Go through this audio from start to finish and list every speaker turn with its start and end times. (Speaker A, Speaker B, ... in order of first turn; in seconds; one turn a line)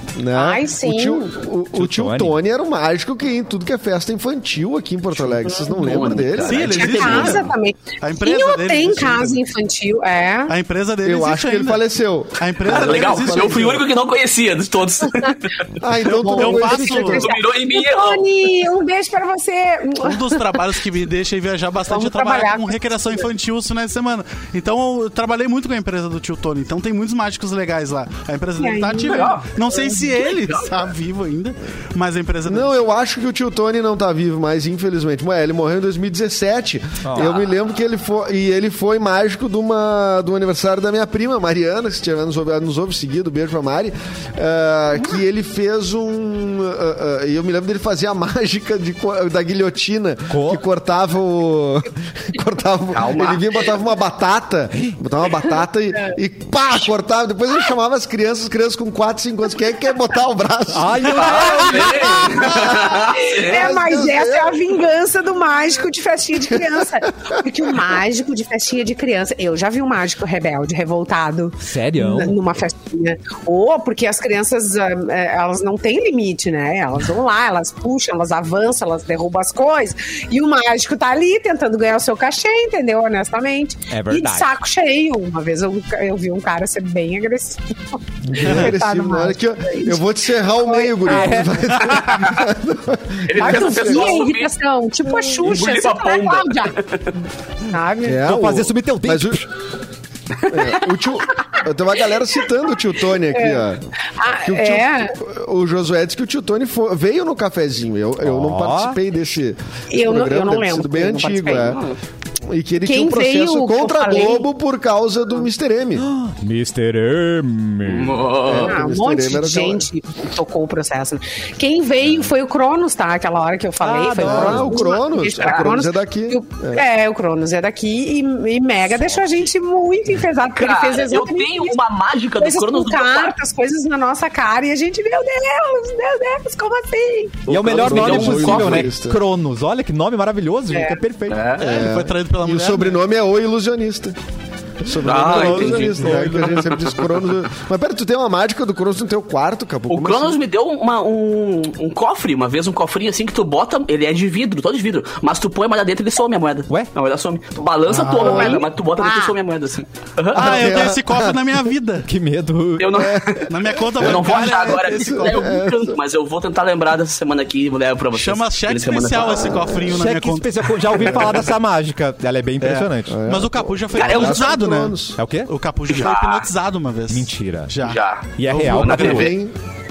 Speaker A: 0.1-7.1
Speaker B: 0.3-1.3
Speaker C: 1.7-2.4
Speaker D: 5.6-7.5
Speaker E: 6.4-9.4
Speaker B: 6.6-10.5
Speaker E: 10.5-11.8
Speaker A: 11.0-13.8
Speaker E: 12.4-13.8
Speaker D: 12.7-15.7
Speaker A: 15.8-17.3
Speaker E: 16.1-17.2
Speaker B: 16.2-20.7
Speaker D: 16.9-18.5
Speaker E: 20.0-32.9
Speaker B: 21.9-23.2
Speaker B: 28.6-29.4
Speaker D: 29.0-30.9
Speaker A: 32.5-64.7
Speaker C: 37.0-37.4
Speaker D: 37.2-37.5
Speaker C: 50.3-50.6
Speaker D: 52.9-53.6
Speaker C: 60.7-62.4
Speaker D: 61.1-63.7
Speaker B: 62.5-91.6
Speaker C: 71.6-72.4
Speaker C: 83.9-84.5
Speaker A: 88.3-94.2
Speaker C: 91.1-91.8
Speaker D: 92.1-92.4
Speaker D: 93.3-94.5
Speaker B: 93.3-96.8
Speaker D: 95.2-97.2
Speaker B: 97.7-98.2
Speaker A: 98.0-99.4
Speaker C: 98.1-99.5
Speaker D: 100.4-100.8
Speaker A: 100.5-103.8
Speaker B: 103.3-105.2
Speaker A: 104.4-111.8
Speaker C: 108.2-109.0
Speaker B: 109.9-111.8
Speaker D: 111.5-112.0
Speaker A: 112.4-116.1
Speaker B: 112.8-114.5
Speaker C: 116.0-118.2
Speaker D: 117.9-118.7
Speaker A: 118.4-119.8
Speaker B: 118.6-131.8
Speaker C: 123.8-124.9
Speaker A: 124.2-126.8
Speaker D: 125.4-125.7
Speaker D: 130.5-133.3
Speaker B: 132.4-137.4
Speaker D: 137.4-138.9
Speaker C: 137.5-141.5
Speaker A: 137.6-139.2
Speaker B: 140.7-141.0
Speaker D: 141.3-141.9
Speaker E: 141.6-143.0
Speaker A: 141.6-144.1
Speaker A: 144.8-150.4
Speaker D: 145.0-147.2
Speaker E: 145.0-146.6
Speaker D: 149.9-160.6
Speaker E: 157.9-158.5
Speaker B: 158.1-159.4
Speaker E: 160.3-162.1
Speaker A: 160.3-161.4
Speaker C: 162.1-163.1
Speaker D: 162.8-169.8
Speaker A: 162.9-166.0
Speaker E: 163.5-165.5
Speaker E: 168.1-171.2
Speaker A: 169.3-170.0
Speaker C: 169.9-173.2
Speaker A: 171.0-171.3
Speaker E: 172.6-179.3
Speaker A: 173.1-175.2
Speaker D: 173.9-174.6
Speaker C: 175.2-175.5
Speaker D: 175.9-176.5
Speaker C: 177.1-177.7
Speaker D: 177.8-179.3
Speaker C: 178.4-179.3
Speaker A: 178.9-179.5